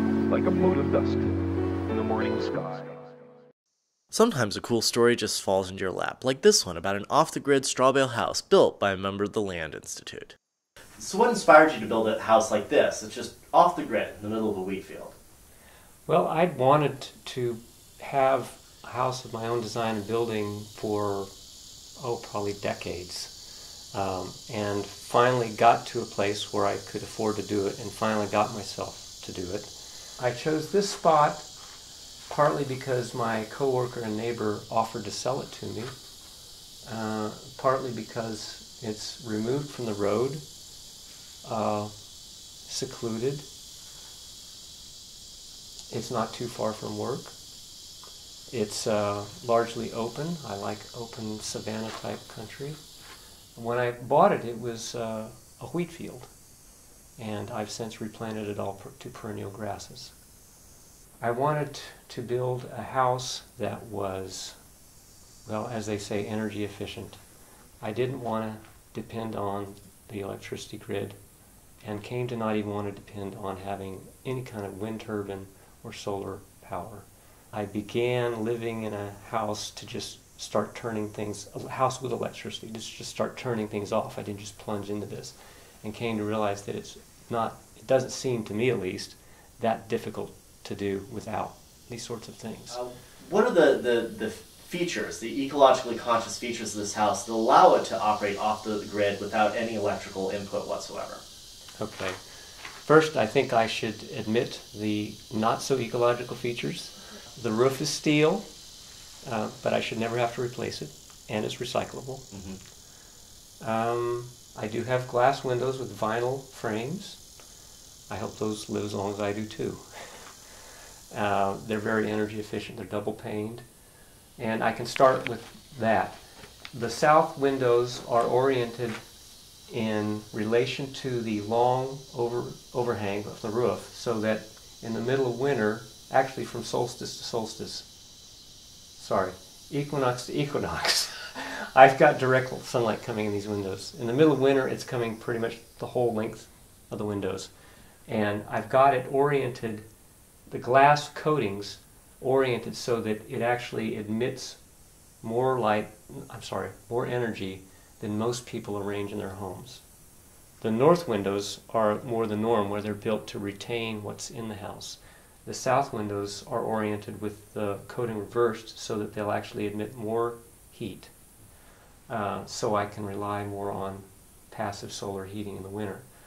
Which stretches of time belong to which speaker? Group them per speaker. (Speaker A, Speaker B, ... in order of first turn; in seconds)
Speaker A: 0.3-1.3, 1.9-3.1
Speaker B: 4.1-10.4, 11.0-15.1, 92.7-101.2, 112.3-112.6
Speaker C: 16.1-21.3, 22.0-23.3, 23.9-31.5, 32.3-35.9, 36.9-40.4, 41.4-41.9, 42.6-43.5, 45.9-47.3, 48.5-52.8, 53.5-56.3, 57.2-60.1, 61.2-64.6, 65.5-67.2, 67.8-71.2, 71.8-92.8, 101.8-102.2, 102.8-108.5, 109.2-112.3, 113.6-117.2, 118.1-119.8, 121.1-123.6, 124.4-126.2, 126.7-129.0, 129.7-137.9, 138.9-147.5, 148.1-149.8, 150.5-154.6, 155.2-159.8, 160.6-171.1, 172.1-176.1